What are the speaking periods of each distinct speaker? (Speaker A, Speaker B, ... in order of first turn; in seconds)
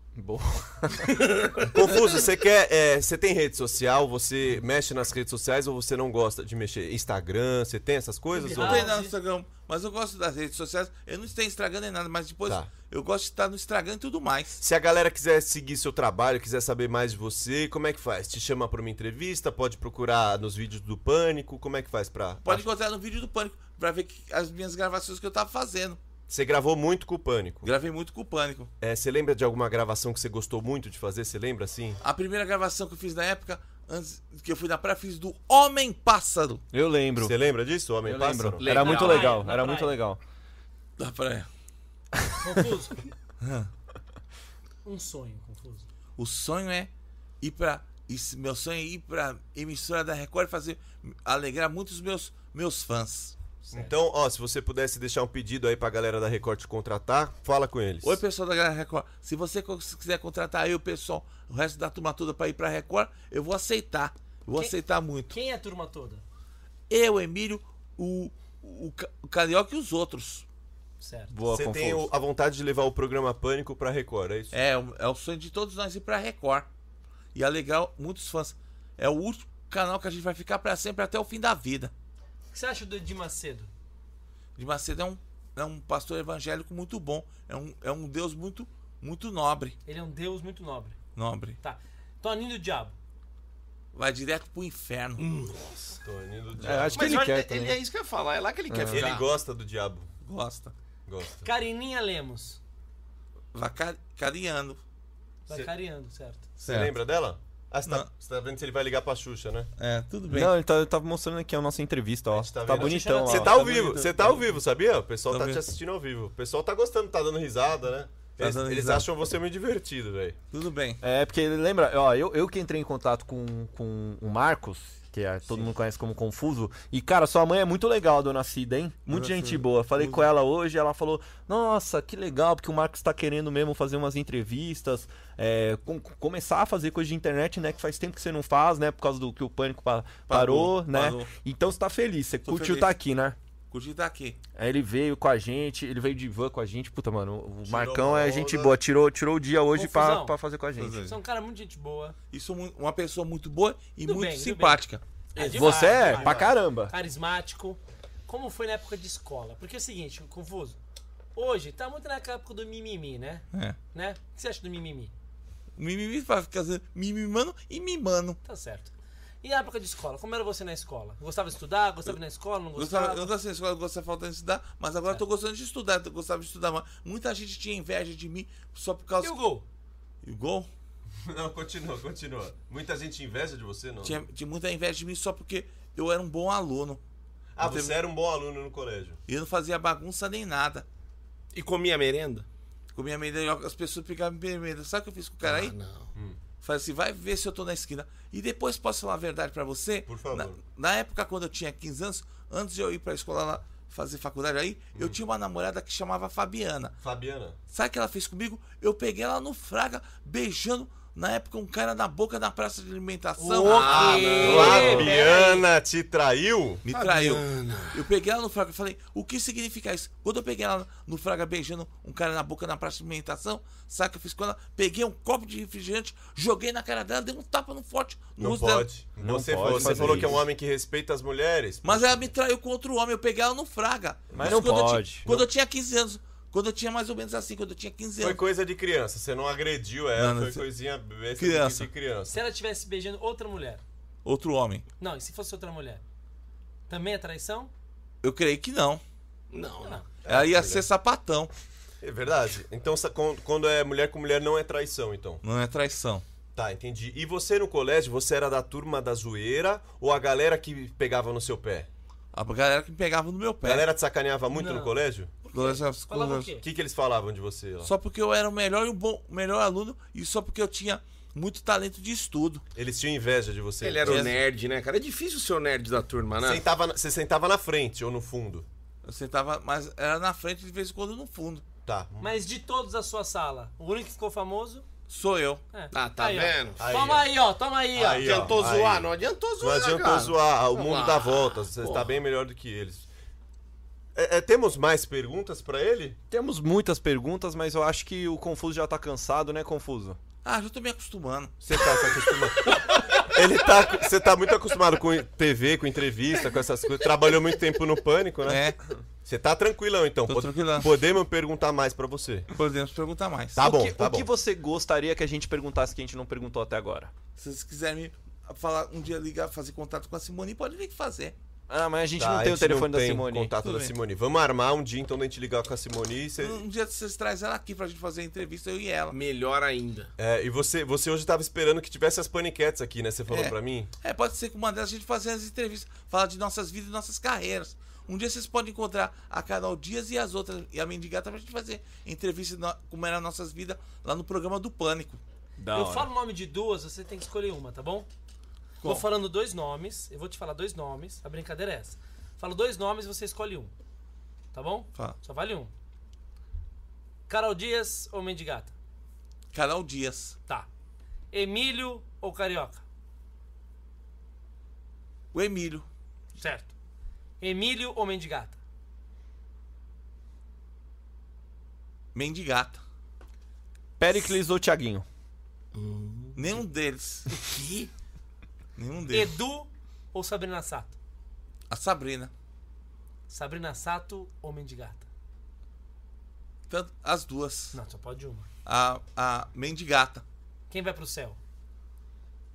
Speaker A: 0.2-1.3, 36.7-37.4, 38.0-40.2, 71.3-72.1, 96.6-97.8, 98.7-99.1, 110.3-113.6, 121.0-143.4, 144.6-151.0, 155.5-156.9, 229.2-230.4, 234.3-235.4, 296.3-300.2, 313.6-317.1, 321.7-323.5, 345.6-346.1, 374.0-375.1
Speaker B: 1.3-1.7, 38.6-39.4, 95.2-96.0, 97.0-99.3, 155.4-156.5, 191.5-192.5, 195.4-196.1, 213.6-215.1, 216.9-218.0, 249.5-250.1, 273.8-276.6, 285.9-286.9, 288.2-292.1, 329.1-330.1, 375.7-376.6, 377.3-377.9
Speaker C: 1.7-8.9, 14.6-22.6, 26.3-27.7, 28.8-32.0, 37.2-39.0, 53.7-58.2, 71.5-74.5, 96.0-97.2, 98.9-100.1, 101.1-101.5, 106.6-109.7, 112.3-120.4, 147.7-148.8, 181.2-184.2, 187.6-189.2, 200.1-200.6, 207.0-207.6, 213.9-216.8, 228.4-232.3, 238.2-242.4, 250.2-250.8, 252.0-255.4, 256.6-261.9, 263.6-265.3, 266.6-267.9, 272.8-274.4, 276.4-278.7, 281.9-282.3, 286.8-287.3, 287.9-293.1, 294.1-296.2, 301.6-308.7, 309.2-312.5, 313.6-314.3, 322.2-326.6, 330.2-333.9
Speaker D: 8.3-9.1, 38.8-40.0, 42.4-43.1, 44.8-45.9, 53.7-54.0, 65.3-66.2, 71.0-71.3, 82.5-83.7, 89.9-91.0, 91.6-93.0, 101.4-102.6, 105.5-106.5, 112.8-113.3, 149.7-150.4, 151.0-152.2, 154.0-154.8, 155.3-160.8, 161.4-165.1, 168.4-173.3, 179.2-179.7, 213.4-215.7, 242.3-243.8, 245.0-246.0, 246.9-247.7, 264.5-264.9, 265.5-266.6, 282.2-284.9, 285.7-288.4, 345.7-348.1, 348.8-353.7, 354.5-355.7, 357.3-358.7, 361.3-362.8, 366.4-366.7, 367.4-368.6, 379.1-381.0, 383.3-385.1, 387.7-388.5, 390.7-391.4
Speaker E: 8.5-14.6, 22.4-26.0, 27.6-28.7, 32.0-36.6, 41.0-41.5, 43.4-43.7, 46.2-46.9, 47.4-53.3, 58.0-65.3, 66.9-70.5, 74.5-76.7, 77.3-81.9, 84.6-89.8, 91.2-91.6, 93.9-95.2, 100.2-100.7, 103.5-104.8, 106.7-107.0, 109.8-110.5, 112.8-114.4, 115.3-115.6, 118.4-119.1, 120.5-121.0, 129.1-130.3, 140.3-141.3, 142.4-142.9, 143.7-144.4, 150.8-151.2, 152.3-155.0, 165.8-168.4, 172.8-179.4, 180.2-180.7, 184.0-187.0, 187.6-187.9, 189.3-190.9, 192.9-195.8, 196.6-207.0, 207.7-215.1, 216.8-228.9, 229.8-230.4, 231.8-238.4, 240.2-240.7, 241.4-241.9, 244.2-244.8, 248.2-249.0, 250.3-251.5, 255.4-256.2, 262.3-263.9, 265.5-266.5, 267.8-272.6, 274.0-274.4, 279.1-281.6, 285.1-285.6, 300.4-301.8, 308.5-308.8, 310.3-310.9, 312.5-313.6, 317.4-321.4, 323.6-323.9, 326.4-329.2, 333.3-345.2, 359.5-360.4, 365.3-365.9, 372.1-372.8, 376.4-377.5, 378.8-379.4, 381.7-382.3, 386.7-387.8, 388.6-390.2